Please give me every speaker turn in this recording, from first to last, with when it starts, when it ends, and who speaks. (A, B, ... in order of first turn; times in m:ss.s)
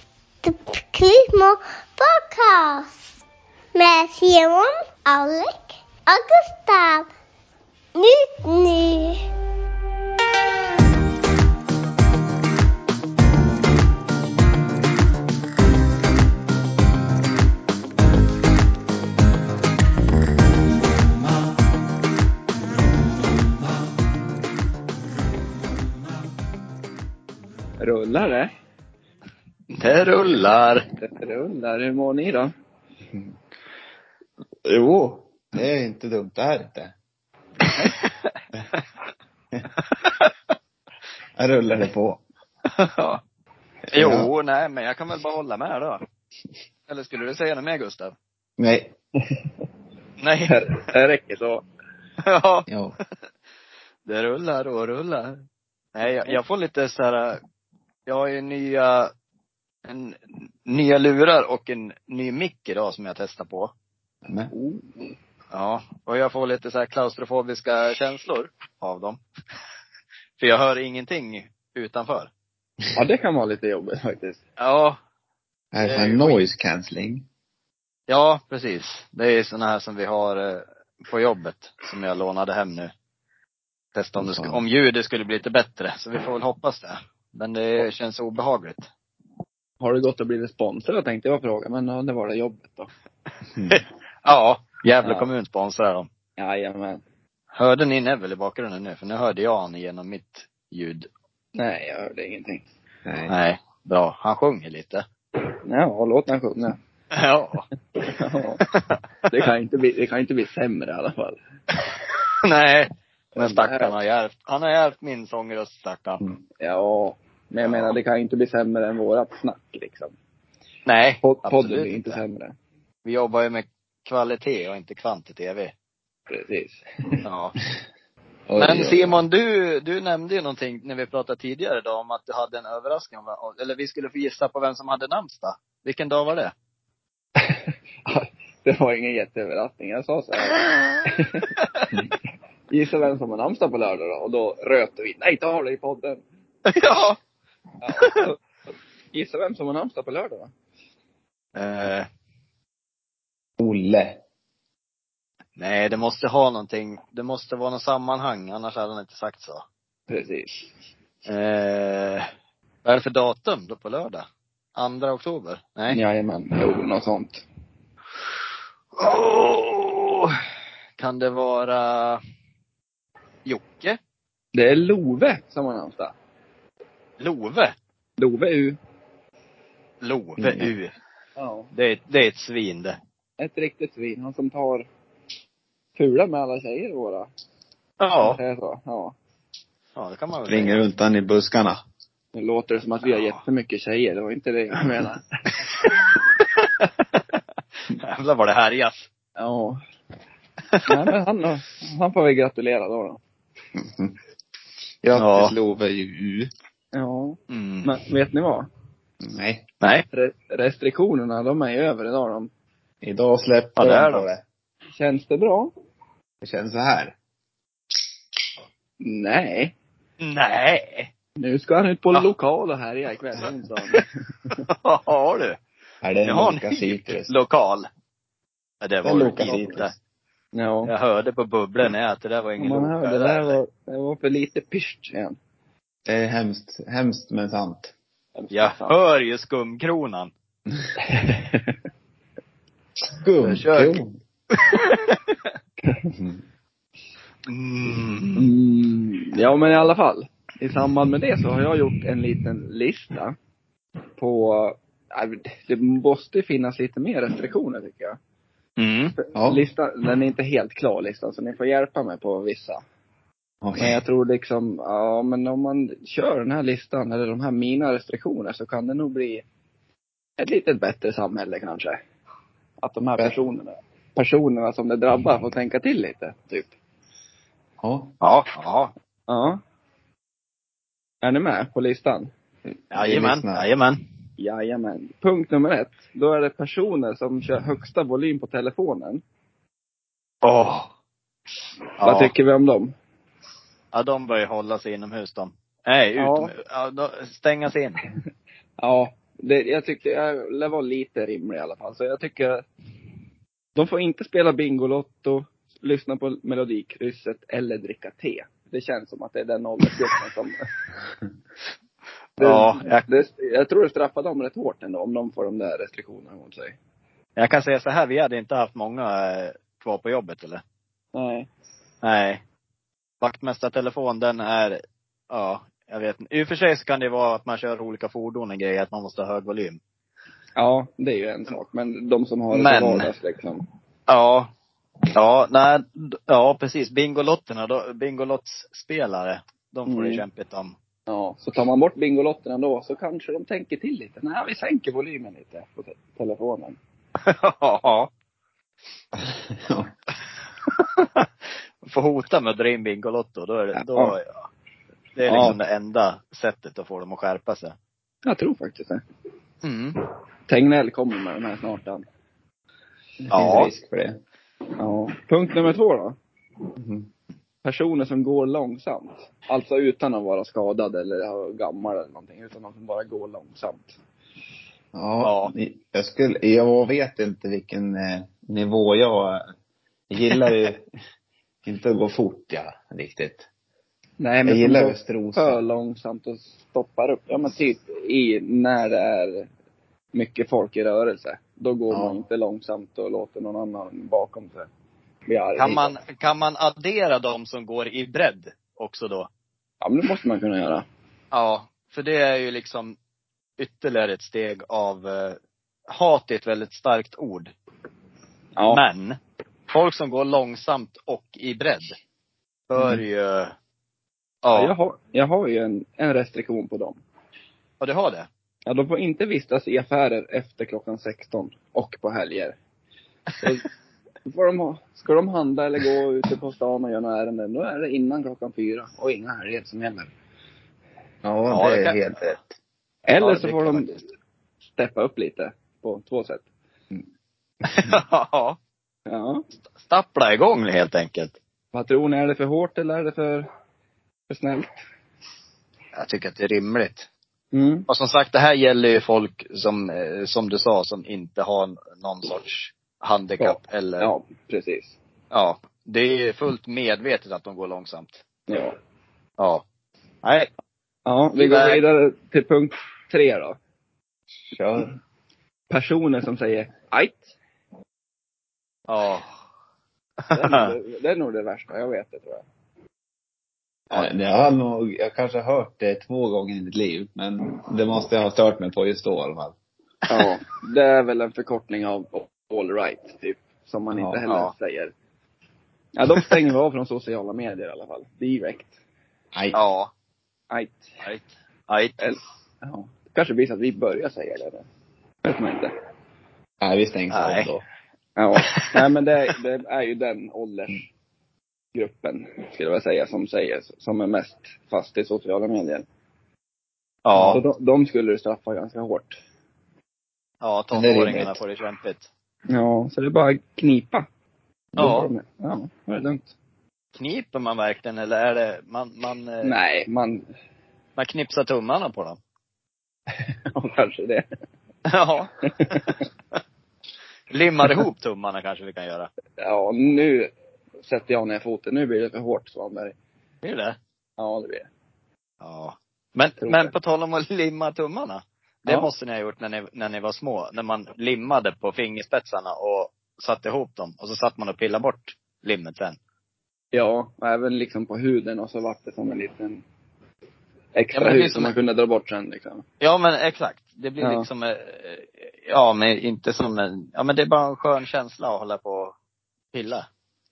0:00.4-0:03.1 A
0:03.8-0:07.1 A
0:08.0-0:09.2 A
0:27.8-0:28.5 B
0:29.7-0:30.9 C
0:31.0-0:32.5 B
0:33.1-0:33.4 D
0:34.6-0:36.9 D
0:37.7-0:38.4 C
0:39.8-0:40.3 C
0:41.4-0:42.2 D
0:42.7-0:43.2 C
0:43.9-0:44.3 D
0:43.9-0:46.0 C
0:46.9-0:48.2 C
0:48.6-0:48.9 D
0:50.2-0:50.6 C
0:50.5-0:51.6 B
0:52.2-0:52.7 C
0:52.7-0:53.0 D
0:54.1-0:55.4 C
0:56.0-0:57.4 C
0:58.1-0:59.1 C
0:59.8-1:03.7 C
1:04.2-1:04.5 D
1:04.5-1:05.0 B
1:05.5-1:09.2 C
1:10.4-1:12.3 C
1:13.0-1:14.4 B
1:14.6-1:15.0 C
1:15.7-1:17.2 D
1:15.8-1:16.4 C
1:18.1-1:22.9 C
1:24.0-1:28.9 C
1:24.2-1:24.6 D
1:29.8-1:32.9 B
1:33.5-1:33.8 D
1:33.7-1:36.1 C
1:35.0-1:35.3 B
1:36.4-1:37.0 B
1:37.6-1:41.1 C
1:41.6-1:42.7 B
1:43.0-1:43.3 D
1:43.3-1:45.0 C
1:45.7-1:46.8 B
1:47.1-1:47.7 C
1:48.0-1:48.6 B
1:48.6-1:49.0 C
1:49.3-1:51.4 B
1:52.4-1:56.2 C
1:53.4-1:53.9 B
1:56.6-2:00.1 B
1:57.6-1:58.0 C
2:00.9-2:02.2 C
2:01.2-2:02.6 B
2:03.0-2:05.7 C
2:06.3-2:07.2 B
2:07.2-2:07.6 C
2:08.5-2:09.2 D
2:08.6-2:16.5 C
2:17.4-2:21.5 B
2:22.7-2:26.2 B
2:26.7-2:27.2 C
2:27.8-2:28.4 B
2:28.0-2:28.2 C
2:29.1-2:30.5 B
2:31.6-2:32.1 C
2:33.6-2:34.2 D
2:35.6-2:39.6 C
2:40.1-2:40.7 B
2:41.2-2:42.3 C
2:42.8-2:44.2 C
2:44.8-2:46.0 C
2:45.9-2:47.4 B
2:49.0-2:50.4 C
2:51.0-2:52.2 C
2:53.5-2:54.0 C
2:54.5-2:56.1 B
2:57.2-2:57.8 C
2:58.2-2:58.8 B
3:00.0-3:00.9 C
3:00.4-3:00.8 D
3:01.4-3:01.7 B
3:01.7-3:03.0 C
3:03.4-3:04.9 B
3:06.0-3:07.3 B
3:08.0-3:08.4 C
3:08.2-3:09.2 B
3:10.0-3:10.8 C
3:10.4-3:11.8 D
3:12.3-3:15.2 B
3:13.0-3:13.4 C
3:15.8-3:17.2 C
3:17.9-3:19.1 C
3:19.4-3:19.8 B
3:20.9-3:23.2 B
3:23.8-3:24.2 D
3:25.0-3:26.5 D
3:25.2-3:25.5 C
3:26.9-3:28.7 B
3:27.5-3:27.9 C
3:29.2-3:29.6 D
3:30.1-3:32.5 B
3:33.0-3:34.4 D
3:33.8-3:34.3 C
3:34.9-3:35.7 B
3:36.4-3:37.2 D
3:39.0-3:39.7 B
3:40.2-3:41.1 C
3:41.4-3:44.1 B
3:43.9-3:45.6 C
3:46.0-3:47.3 D
3:46.2-3:47.9 C
3:48.8-3:49.9 C
3:49.0-3:49.9 D
3:50.6-3:50.9 B
3:50.8-3:53.6 C
3:52.6-3:55.4 B
3:56.1-3:57.9 D
3:58.4-3:59.0 B
3:58.5-4:00.3 C
4:01.0-4:01.8 B
4:03.1-4:04.2 D
4:03.4-4:04.0 C
4:04.5-4:05.2 C
4:06.1-4:06.4 D
4:07.5-4:08.5 C
4:08.4-4:13.4 B
4:14.2-4:18.2 B
4:18.8-4:19.1 C
4:19.2-4:22.8 B
4:19.4-4:19.7 D
4:23.6-4:24.0 D
4:23.8-4:29.4 B
4:30.4-4:32.0 B
4:32.8-4:36.7 B
4:37.8-4:38.2 D
4:38.2-4:38.9 C
4:39.3-4:39.6 B
4:41.2-4:42.3 B
4:42.9-4:43.7 D
4:42.9-4:44.0 C
4:44.4-4:49.2 B
4:50.4-4:50.9 C
4:52.0-4:52.3 C
4:52.0-4:52.9 B
4:53.9-4:58.0 C
4:56.2-4:56.5 B
4:58.8-5:02.6 B
5:03.8-5:10.7 B
5:12.4-5:13.1 C
5:12.4-5:16.8 B
5:17.4-5:20.6 C
5:21.1-5:21.5 B
5:22.0-5:22.4 C
5:23.2-5:29.8 C
5:30.6-5:33.6 B
5:32.5-5:33.1 C
5:34.1-5:34.5 C
5:35.1-5:40.7 C
5:39.9-5:40.2 B
5:41.1-5:46.8 B
5:47.2-5:48.1 C
5:49.1-5:49.9 D
5:50.7-5:51.3 C
5:51.8-5:54.3 C
5:53.8-5:54.2 B
5:55.2-5:57.8 C
5:55.3-5:55.6 B
5:58.3-5:59.0 B
5:59.6-6:00.0 C
6:00.5-6:02.0 B
6:03.3-6:04.2 D
6:03.3-6:03.7 C
6:04.8-6:06.2 B
6:06.8-6:07.1 D
6:07.6-6:14.0 B
6:14.9-6:19.5 D
6:15.2-6:15.5 C
6:20.1-6:20.9 D
6:21.6-6:23.5 D
6:24.2-6:29.5 B
6:24.4-6:25.6 D
6:30.1-6:34.7 B
6:31.9-6:32.2 D
6:35.3-6:35.9 B
6:35.6-6:39.3 C
6:39.8-6:40.9 B
6:41.3-6:43.0 C
6:43.6-6:47.5 C
6:48.6-6:48.8 B
6:48.7-6:49.2 C
6:49.7-6:52.0 C
6:52.7-6:53.5 C
6:54.4-6:54.7 C
6:54.5-6:57.0 B
6:57.8-6:58.3 C
6:58.7-7:02.6 B
7:04.3-7:10.1 B
7:11.2-7:12.5 D
7:11.5-7:12.0 C
7:13.1-7:13.9 B
7:13.2-7:14.0 C
7:14.8-7:16.4 B
7:17.7-7:18.6 C
7:19.1-7:19.4 B
7:19.8-7:21.4 C
7:21.7-7:23.5 B
7:24.3-7:24.8 B
7:26.0-7:27.1 C
7:27.5-7:27.9 B
7:27.9-7:34.1 C
7:33.4-7:35.0 B
7:35.3-7:38.2 C
7:38.5-7:38.8 B
7:40.2-7:40.5 C
7:41.1-7:43.6 B
7:41.4-7:41.8 C
7:44.5-7:44.9 D
7:45.7-7:47.3 B
7:48.9-7:49.3 C
7:50.2-7:50.7 C
7:50.3-7:52.4 B
7:53.9-7:59.6 D
8:00.1-8:04.9 B
8:03.9-8:04.2 D
8:06.0-8:08.7 B
8:09.3-8:09.6 D
8:09.5-8:09.9 C
8:10.5-8:10.9 B
8:11.0-8:12.0 C
8:12.0-8:14.7 B
8:15.2-8:15.7 B
8:16.6-8:17.6 D
8:17.1-8:17.5 C
8:18.2-8:20.8 B
8:18.4-8:18.8 C
8:21.8-8:25.9 B
8:27.0-8:27.4 C
8:27.2-8:27.4 D
8:27.3-8:29.2 B
8:30.4-8:32.1 C
8:30.7-8:31.4 D
8:32.5-8:34.1 B
8:34.8-8:35.1 C
8:34.8-8:36.3 B
8:37.0-8:39.5 C
8:39.4-8:40.3 B
8:41.0-8:42.2 C
8:43.1-8:44.3 B
8:44.9-8:46.0 C
8:45.6-8:46.0 B
8:47.3-8:49.1 C
8:49.4-8:50.3 B
8:50.8-8:53.0 B
8:53.4-8:53.8 C
8:54.2-8:54.7 B
8:55.4-9:06.0 C
8:56.4-8:56.7 B
9:06.7-9:09.6 B
9:10.8-9:12.6 B
9:10.9-9:11.5 C
9:12.8-9:18.9 C
9:14.0-9:14.3 B
9:19.5-9:19.9 C